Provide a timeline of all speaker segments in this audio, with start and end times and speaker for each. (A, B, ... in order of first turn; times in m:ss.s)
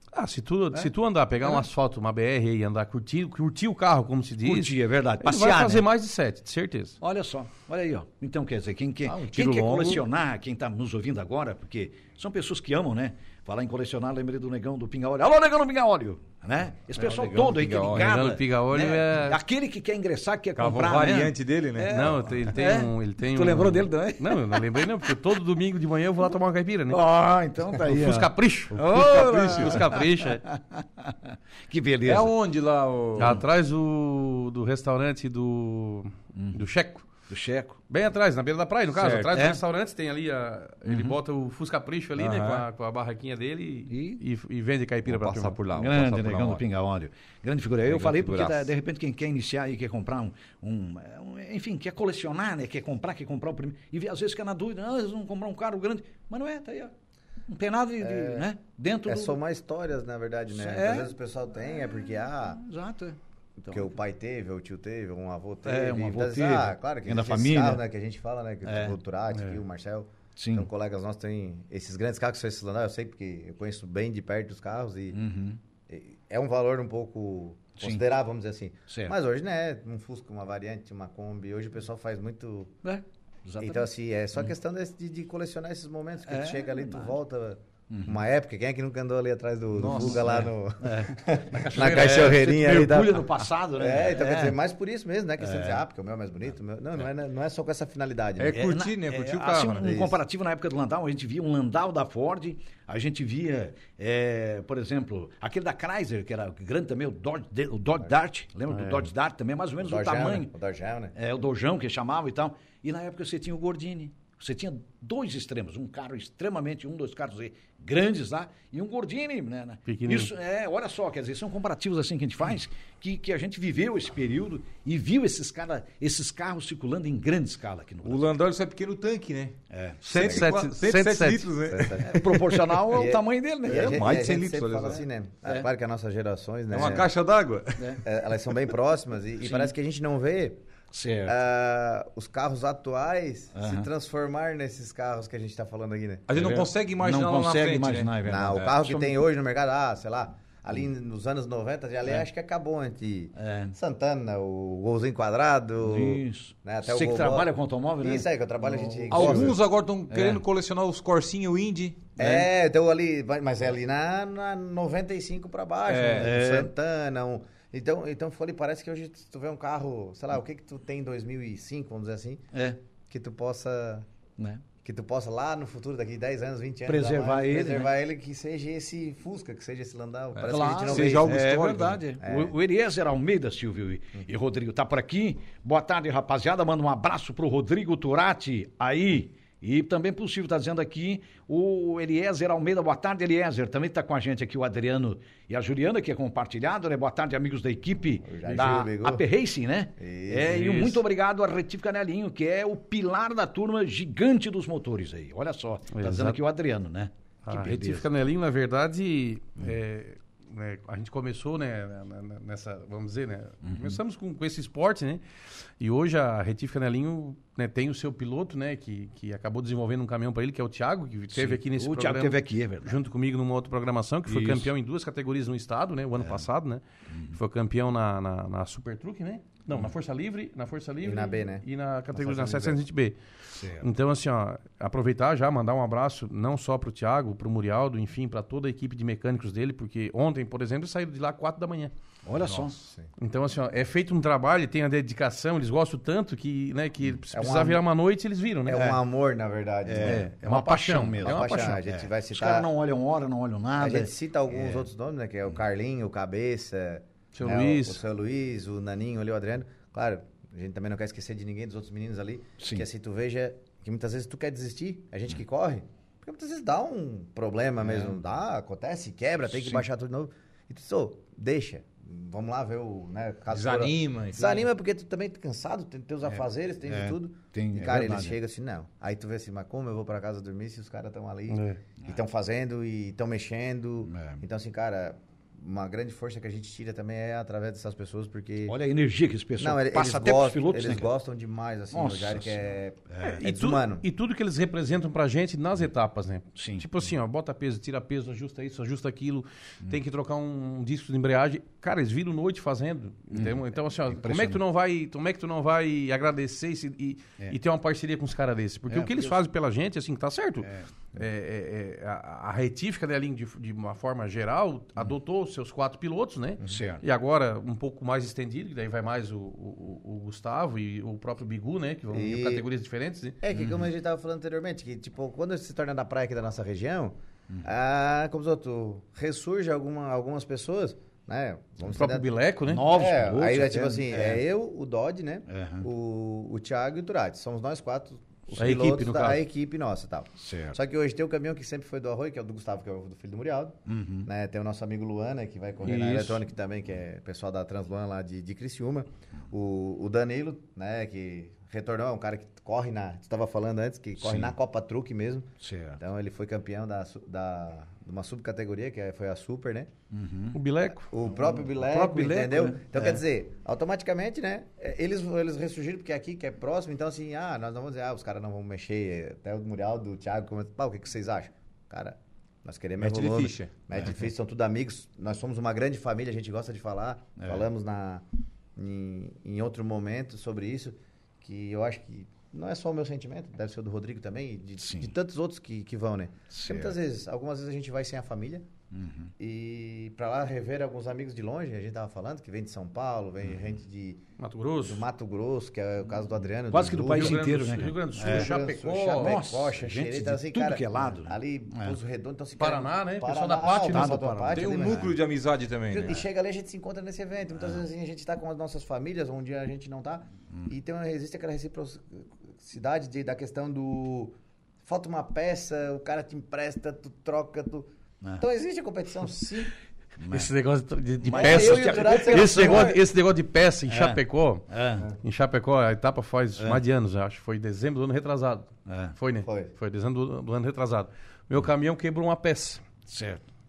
0:00.1-0:07.0 A
0:04.4-0:05.9 B
0:07.0-0:25.1 B
0:09.1-0:10.0 A
0:17.0-0:18.2 C
0:17.8-0:19.4 A
0:20.6-0:22.2 C
0:21.8-0:27.0 A
0:26.9-0:32.3 B
0:27.8-0:30.4 A
0:29.2-0:29.7 C
0:32.1-0:33.4 C
0:33.2-0:37.1 A
0:33.2-0:33.4 B
0:36.4-0:36.6 B
0:37.3-0:37.8 B
0:37.9-0:45.6 A
0:39.0-0:39.4 C
0:39.3-0:39.6 B
0:40.9-0:41.2 B
0:42.2-0:42.7 C
0:43.9-0:44.2 B
0:45.1-0:46.6 C
0:45.7-0:56.9 B
0:47.9-0:48.7 C
0:57.5-0:59.4 B
0:58.0-0:58.5 D
0:59.1-1:02.6 D
1:00.5-1:01.2 B
1:02.5-1:03.2 B
1:03.6-1:15.2 D
1:05.6-1:07.8 B
1:08.6-1:09.0 B
1:10.4-1:10.7 B
1:15.1-1:15.6 B
1:15.9-1:22.8 D
1:18.9-1:19.2 B
1:22.8-1:23.9 B
1:23.6-1:38.6 D
1:26.3-1:27.2 B
1:27.9-1:28.2 B
1:29.8-1:30.4 C
1:29.9-1:34.6 B
1:35.4-1:35.8 B
1:38.4-1:39.9 C
1:38.5-1:50.5 B
1:39.8-1:40.2 D
1:48.7-1:49.1 D
1:49.8-1:51.2 D
1:51.2-2:08.4 B
1:59.9-2:00.3 A
2:08.0-2:12.8 C
2:09.7-2:10.0 B
2:10.0-2:11.5 A
2:10.2-2:10.5 D
2:11.7-2:12.3 D
2:12.0-2:14.2 B
2:12.9-2:17.1 D
2:13.7-2:15.0 C
2:16.7-2:18.0 C
2:16.8-2:17.1 B
2:18.0-2:20.6 D
2:19.4-2:19.7 B
2:20.9-2:21.4 B
2:21.2-2:26.3 D
2:23.6-2:23.9 B
2:26.3-2:28.1 C
2:26.4-2:29.2 B
2:28.2-2:39.6 D
2:33.4-2:33.8 B
2:35.8-2:40.4 B
2:39.1-2:42.1 C
2:42.2-2:52.4 D
2:42.2-2:42.5 B
2:45.9-2:46.3 C
2:46.2-2:46.7 B
2:52.5-2:52.8 B
2:53.1-2:54.1 D
2:54.4-2:54.6 B
2:54.8-3:01.4 D
2:56.9-2:57.9 B
3:00.4-3:02.0 C
3:00.5-3:28.1 B
3:02.2-3:02.6 D
3:18.2-3:19.2 D
3:20.0-3:20.8 D
3:20.5-3:21.0 A
3:25.9-3:26.4 A
3:27.5-3:35.2 A
3:33.6-3:34.0 B
3:35.8-3:53.2 A
3:41.3-3:43.0 B
3:44.3-3:44.7 B
3:47.1-3:47.4 B
3:51.0-3:52.8 D
3:53.5-3:53.9 B
3:53.8-4:01.9 A
4:02.2-4:02.8 B
4:02.8-4:03.1 D
4:03.2-4:08.8 A
4:07.3-4:07.8 D
4:08.7-4:10.4 D
4:08.7-4:09.0 B
4:09.9-4:14.8 B
4:10.1-4:11.8 A
4:11.2-4:12.7 D
4:13.8-4:48.8 D
4:17.3-4:18.0 A
4:22.6-4:22.8 B
4:27.8-4:28.2 B
4:29.5-4:29.8 B
4:33.5-4:34.7 C
4:36.9-4:38.4 B
4:41.5-4:41.8 A
4:44.1-4:44.4 B
4:48.7-4:51.1 B
4:49.6-4:54.1 D
4:51.9-4:52.6 B
4:53.1-4:53.4 B
4:53.2-5:23.4 A
4:56.6-4:56.9 B
5:03.3-5:04.6 B
5:08.9-5:09.4 B
5:10.6-5:10.9 B
5:16.6-5:17.0 B
5:22.1-5:22.6 D
5:23.4-5:32.3 D
5:23.6-5:23.8 B
5:31.9-5:32.9 A
5:32.7-5:34.4 B
5:32.9-5:59.9 D
5:35.5-5:35.9 B
5:38.6-5:39.4 A
5:40.4-5:40.8 B
5:43.9-5:44.3 B
5:45.9-5:46.3 A
5:45.9-5:46.3 B
5:54.2-5:54.5 B
5:55.6-5:56.0 B
6:00.1-6:00.6 B
6:00.5-6:01.1 A
6:01.0-6:18.2 D
6:01.7-6:02.8 A
6:02.9-6:03.2 B
6:13.0-6:13.7 C
6:17.4-6:17.6 B
6:18.8-6:28.7 D
6:24.8-6:25.1 B
6:26.5-6:26.9 B
6:28.9-6:29.3 B
6:29.4-6:34.2 D
6:34.4-6:35.0 A
6:34.8-6:37.4 D
6:36.7-6:38.5 B
6:37.1-6:39.4 A
6:38.2-6:45.1 D
6:39.2-6:42.0 B
6:42.6-6:44.5 A
6:43.9-6:45.1 B
6:44.5-6:46.2 C
6:45.9-6:59.7 D
7:00.2-7:00.5 B
7:00.3-7:12.8 A
7:01.2-7:02.9 B
7:01.3-7:03.0 D
7:02.7-7:02.9 C
7:03.9-7:05.1 B
7:08.9-7:09.1 B
7:09.4-7:09.7 D
7:13.1-7:13.4 B